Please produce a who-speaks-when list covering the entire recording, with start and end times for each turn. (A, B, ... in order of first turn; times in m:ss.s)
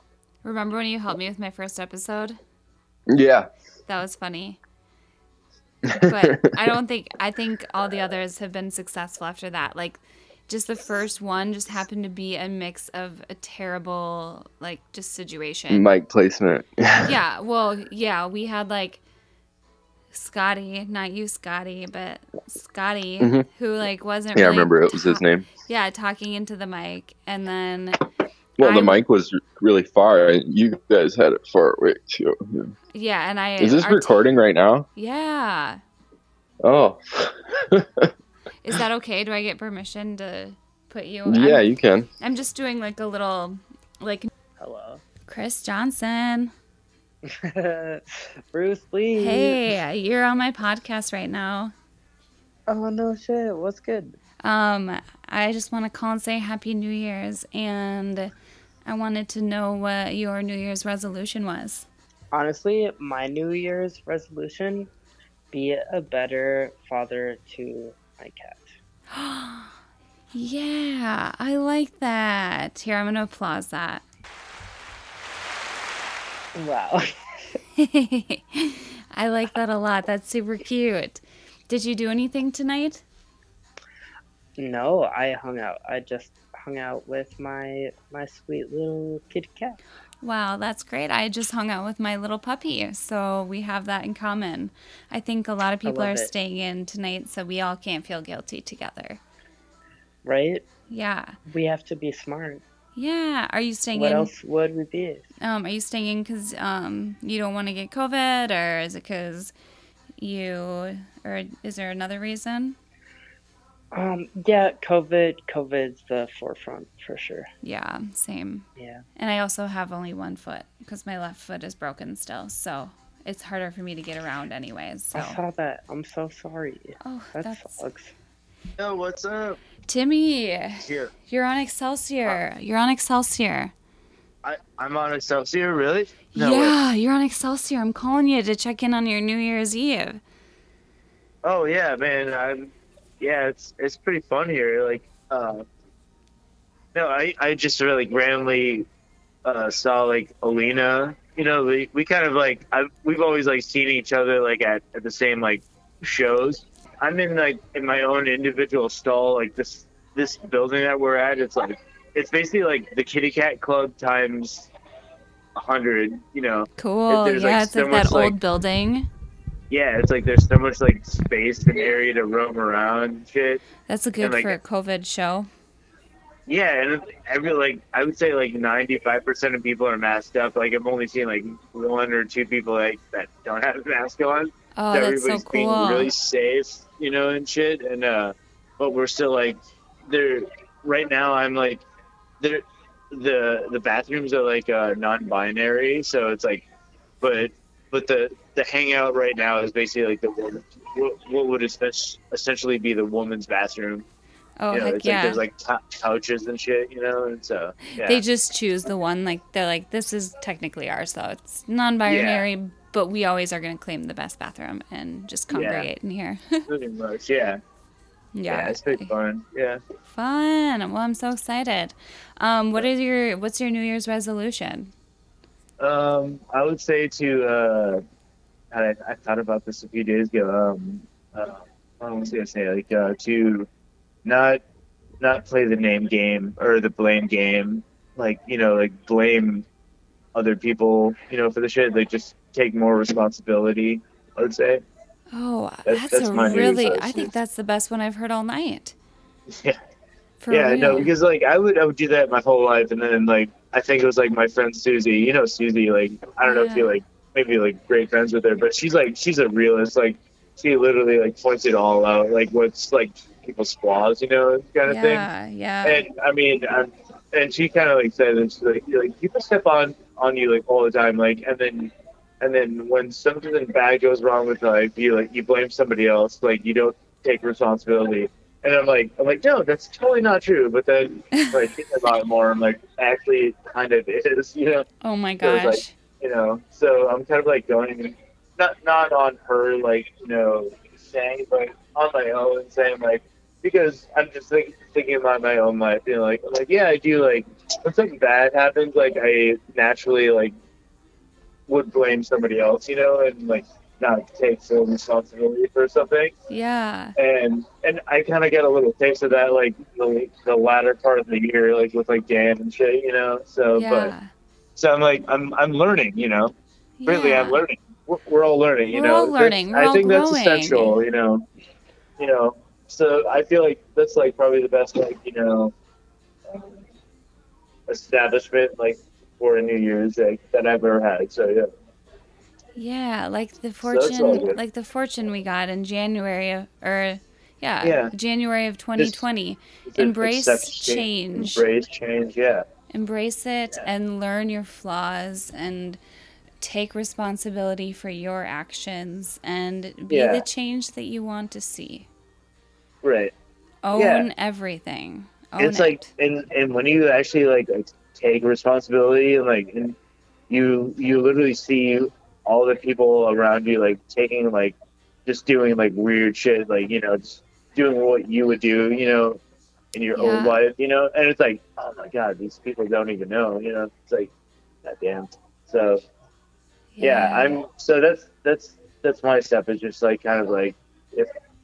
0:00.4-0:02.4 A
0:03.1-0:03.5 B
0:03.9-0:04.6 A
0:05.9-0:06.4 B
0:05.9-0:15.9 A
0:15.7-0:17.1 B
0:17.0-0:19.0 A
0:20.1-0:28.0 A
0:23.2-0:23.5 B
0:24.3-0:25.5 B
0:28.6-0:32.7 B
0:28.6-0:29.0 A
0:32.9-0:34.2 A
0:33.6-0:34.8 B
0:34.9-0:35.8 A
0:36.6-0:38.1 B
0:38.6-0:41.6 A
0:41.2-0:42.1 B
0:42.2-0:44.3 A
0:44.6-0:45.0 C
0:45.2-0:46.5 A
0:47.2-0:49.6 C
0:49.2-0:51.7 A
0:52.7-0:54.2 C
0:54.4-0:58.3 A
0:58.8-1:01.8 A
1:02.3-1:04.9 C
1:05.5-1:08.7 C
1:09.1-1:09.7 A
1:10.3-1:14.0 A
1:16.5-1:17.1 C
1:17.8-1:23.0 A
1:24.6-1:29.8 C
1:30.2-1:39.2 A
1:35.8-1:36.3 C
1:40.2-1:40.6 C
1:40.9-1:41.4 A
1:41.5-1:42.6 C
1:43.0-1:44.3 A
1:43.9-1:45.2 C
1:45.4-1:49.5 A
1:50.2-1:52.8 A
1:53.9-1:57.5 C
1:57.6-2:05.4 A
1:58.8-1:59.0 C
2:05.1-2:08.1 C
2:07.0-2:07.8 A
2:08.8-2:09.6 D
2:09.9-2:13.7 A
2:10.8-2:11.1 D
2:14.4-2:16.7 D
2:16.3-2:20.2 A
2:21.4-2:25.6 D
2:26.9-2:28.8 D
2:29.4-2:44.7 D
2:45.6-2:48.4 D
2:46.8-2:49.1 A
2:49.7-2:53.6 D
2:53.9-2:55.5 A
2:54.2-2:54.6 D
2:56.5-3:11.8 D
3:04.7-3:06.1 A
3:12.4-3:16.6 D
3:17.2-3:24.0 D
3:24.6-3:25.4 A
3:24.7-3:28.2 D
3:28.0-3:36.7 A
3:32.0-3:32.5 D
3:35.5-3:35.9 D
3:36.7-3:37.6 D
3:38.3-3:39.1 A
3:38.5-3:39.8 D
3:40.1-3:44.9 A
3:45.8-3:48.0 D
3:48.7-3:53.7 D
3:54.2-3:54.6 D
3:55.2-3:59.6 D
4:00.3-4:04.8 D
4:05.3-4:08.9 A
4:05.9-4:07.3 D
4:09.5-4:09.8 D
4:10.4-4:11.1 A
4:10.5-4:25.2 D
4:16.4-4:17.0 A
4:24.8-4:26.0 A
4:25.8-4:44.9 D
4:45.0-4:45.9 A
4:45.4-5:00.5 D
5:01.7-5:06.3 D
5:06.5-5:07.2 A
5:07.2-5:14.1 D
5:13.7-5:14.3 A
5:14.7-5:16.5 D
5:17.0-5:17.6 A
5:17.1-5:21.4 D
5:18.9-5:21.0 A
5:22.2-5:25.7 D
5:26.5-5:26.8 D
5:27.9-5:31.7 D
5:32.8-5:41.6 A
5:33.8-5:34.6 D
5:37.8-5:38.1 D
5:39.0-5:39.2 D
5:39.9-5:42.6 D
5:42.9-5:46.0 A
5:46.6-5:52.1 A
5:50.1-5:50.4 D
5:53.0-5:53.3 D
5:53.8-5:56.1 A
5:53.9-5:54.3 D
5:55.6-6:00.0 D
6:00.5-6:04.7 D
6:05.2-6:09.4 D
6:09.9-6:14.3 D
6:10.1-6:10.6 A
6:14.8-6:16.0 D
6:16.9-6:17.6 A
6:17.0-6:21.3 D